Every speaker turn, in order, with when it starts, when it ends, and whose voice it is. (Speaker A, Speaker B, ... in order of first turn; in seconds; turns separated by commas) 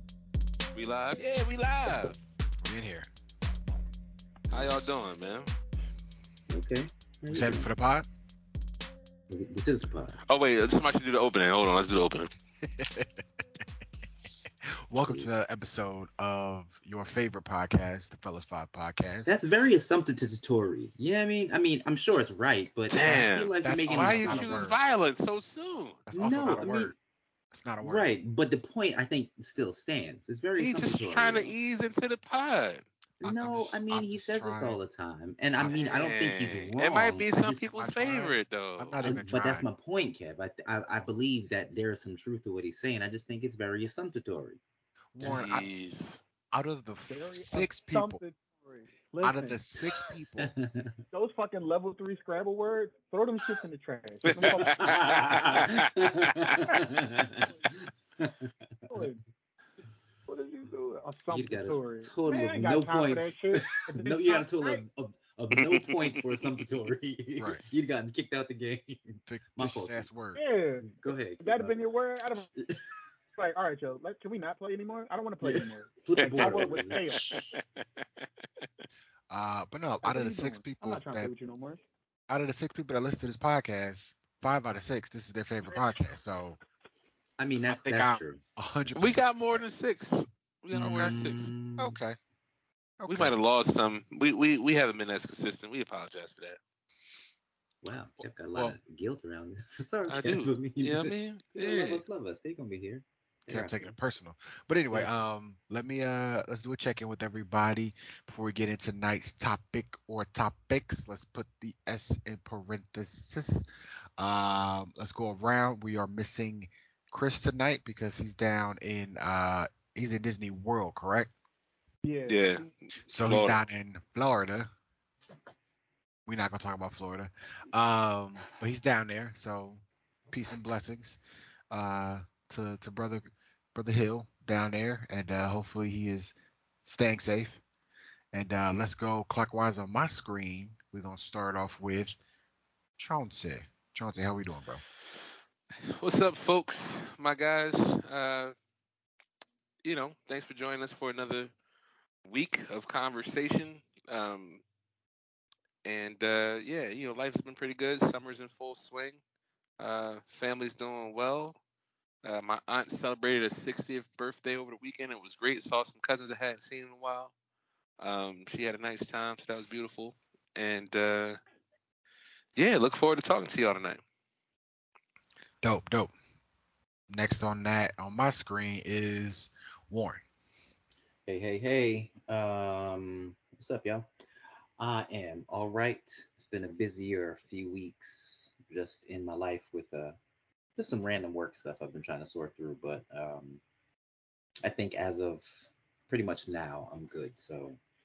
Speaker A: 0.7-2.2, Speaker B: 2.5-3.1, Speaker A: 4.5-5.5, Speaker C: 6.5-7.7, Speaker B: 7.3-8.1, Speaker C: 9.3-10.2, Speaker A: 10.3-12.3, Speaker B: 12.6-13.1, Speaker B: 14.4-19.4, Speaker C: 15.0-15.4, Speaker C: 19.2-24.7, Speaker A: 22.9-26.0, Speaker B: 23.6-24.8, Speaker B: 26.1-26.9, Speaker C: 26.1-26.9, Speaker B: 27.5-28.1, Speaker C: 27.8-31.5, Speaker A: 30.6-32.8, Speaker C: 33.2-37.5, Speaker B: 33.2-34.8, Speaker B: 35.6-35.9, Speaker A: 35.6-39.0, Speaker B: 37.4-39.6, Speaker C: 39.0-44.6, Speaker B: 45.1-45.7, Speaker A: 45.2-46.2, Speaker B: 46.5-48.2, Speaker D: 47.1-49.6, Speaker B: 49.2-50.5, Speaker C: 50.4-51.0, Speaker D: 51.1-55.1, Speaker A: 54.3-56.7, Speaker C: 54.6-59.0, Speaker D: 58.9-59.2, Speaker D: 60.3-64.8, Speaker C: 61.3-70.1, Speaker A: 65.5-66.6, Speaker B: 69.3-70.4, Speaker D: 70.3-72.5, Speaker C: 70.8-71.8, Speaker D: 73.4-77.4, Speaker C: 75.4-77.2, Speaker A: 76.2-78.2, Speaker B: 79.3-81.3, Speaker D: 80.0-81.8, Speaker B: 82.3-86.6, Speaker C: 87.4-88.4, Speaker B: 87.7-89.6, Speaker A: 88.9-91.5, Speaker C: 90.7-92.0, Speaker B: 90.8-92.2, Speaker B: 93.0-93.3, Speaker A: 93.1-96.6, Speaker C: 97.8-103.9, Speaker A: 100.1-102.0, Speaker B: 103.5-113.7, Speaker B: 114.2-121.3, Speaker D: 122.0-122.7, Speaker A: 122.3-122.7, Speaker B: 123.1-124.7, Speaker A: 123.2-123.6, Speaker B: 126.3-131.2, Speaker B: 131.7-136.3, Speaker B: 136.8-137.6, Speaker B: 138.3-142.2, Speaker B: 143.0-144.8, Speaker A: 145.8-148.5, Speaker A: 149.8-151.5, Speaker A: 152.2-154.6, Speaker A: 155.8-159.2, Speaker A: 159.8-161.6, Speaker A: 162.2-167.3, Speaker A: 168.0-171.4, Speaker A: 172.6-174.0, Speaker B: 175.6-176.1, Speaker B: 177.1-180.2, Speaker C: 181.2-184.1, Speaker C: 184.8-190.2, Speaker C: 190.8-193.6, Speaker C: 194.6-197.8